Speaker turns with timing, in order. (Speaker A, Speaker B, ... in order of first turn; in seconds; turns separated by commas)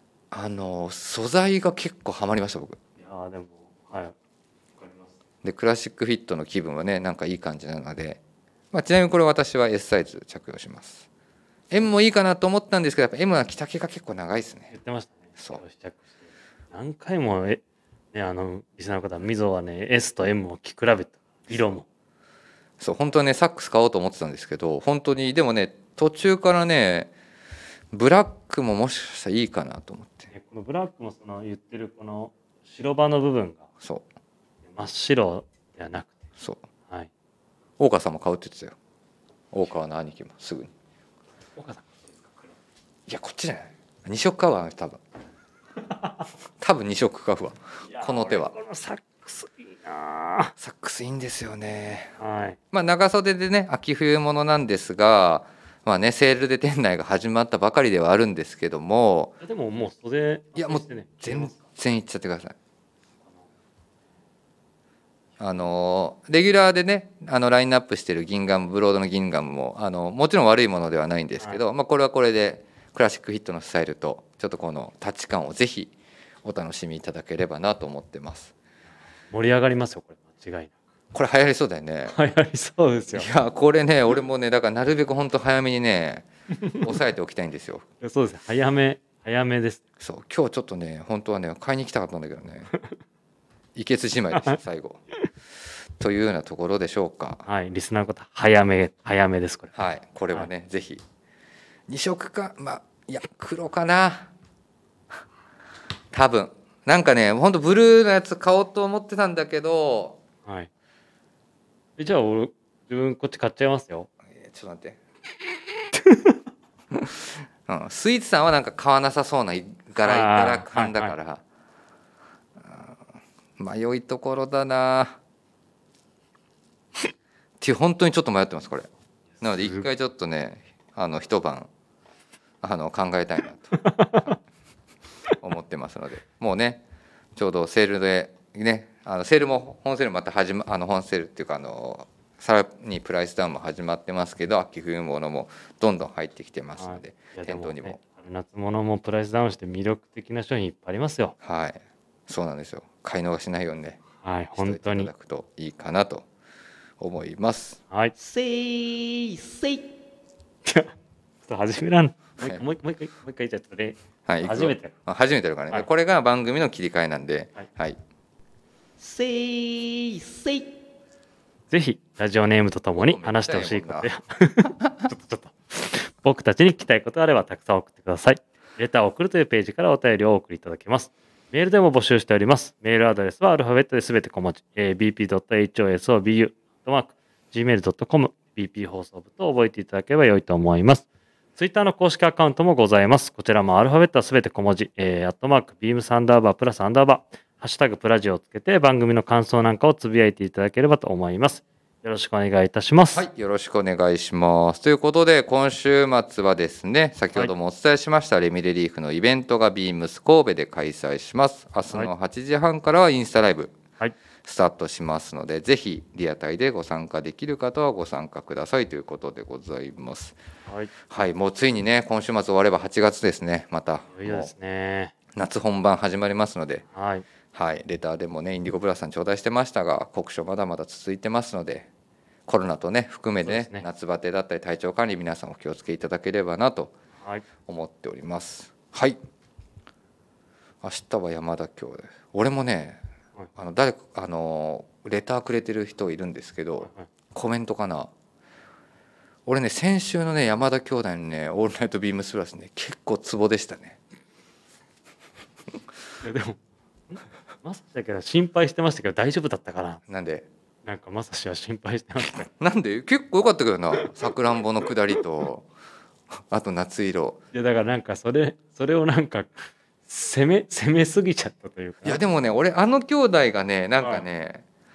Speaker A: 0.3-2.8, Speaker B: 3.0-4.2, Speaker B: 4.8-5.1, Speaker A: 5.4-8.2, Speaker A: 8.7-11.1, Speaker A: 11.7-14.7, Speaker B: 14.7-17.6, Speaker B: 18.1-21.9, Speaker A: 22.8-27.1, Speaker A: 27.9-30.3, Speaker B: 30.3-33.7, Speaker A: 33.8-34.1, Speaker B: 34.7-36.2, Speaker A: 37.8-38.8, Speaker A: 39.5-40.7, Speaker B: 41.6-42.5, Speaker A: 43.1-45.0, Speaker B: 45.9-46.2, Speaker A: 46.6-48.5, Speaker B: 47.9-50.5, Speaker A: 50.6-52.1, Speaker B: 52.2-52.6, Speaker A: 52.7-59.4, Speaker B: 59.4-61.6, Speaker A: 60.6-62.6, Speaker A: 65.4-75.9, Speaker A: 76.4-78.5, Speaker B: 79.3-80.8, Speaker A: 81.1-82.2, Speaker B: 82.1-83.3, Speaker A: 83.1-86.3, Speaker B: 86.5-87.0, Speaker A: 86.8-87.8, Speaker B: 88.0-89.8, Speaker A: 90.0-92.7, Speaker A: 93.8-95.0, Speaker A: 96.0-97.4, Speaker B: 97.5-99.8, Speaker A: 99.8-101.0, Speaker A: 101.9-104.3, Speaker A: 106.1-110.2, Speaker B: 112.0-114.1, Speaker A: 114.3-115.0, Speaker B: 116.1-116.3, Speaker A: 116.9-121.4, Speaker B: 120.0-121.1, Speaker A: 122.6-123.0, Speaker A: 123.6-125.2, Speaker A: 127.6-128.9, Speaker B: 129.4-129.9, Speaker A: 129.4-131.7, Speaker A: 132.6-133.7, Speaker B: 133.7-134.4, Speaker A: 135.4-136.8, Speaker A: 137.4-148.0, Speaker B: 146.8-151.4, Speaker A: 151.4-156.2, Speaker B: 154.2-155.1, Speaker A: 157.0-157.8, Speaker C: 158.2-159.9, Speaker B: 160.7-160.9, Speaker B: 161.5-164.9, Speaker A: 164.3-168.0, Speaker C: 169.0-170.7, Speaker B: 171.7-191.1, Speaker A: 173.0-174.1, Speaker B: 191.6-203.2, Speaker A: 203.1-213.8, Speaker A: 214.4-220.4, Speaker B: 220.7-220.9, Speaker A: 221.1-224.5, Speaker B: 224.1-225.1, Speaker A: 225.3-226.8, Speaker B: 226.9-227.3, Speaker A: 227.5-231.9, Speaker A: 232.5-236.9, Speaker B: 233.4-233.8, Speaker B: 237.2-237.4, Speaker A: 237.7-239.2, Speaker A: 240.8-243.0, Speaker A: 243.6-248.1, Speaker B: 246.8-247.1, Speaker A: 249.5-254.0, Speaker B: 256.2-260.0, Speaker A: 260.1-260.5, Speaker B: 260.9-262.5, Speaker A: 262.6-265.7, Speaker A: 266.5-267.4, Speaker B: 267.5-272.2, Speaker A: 272.1-274.6, Speaker B: 274.0-274.2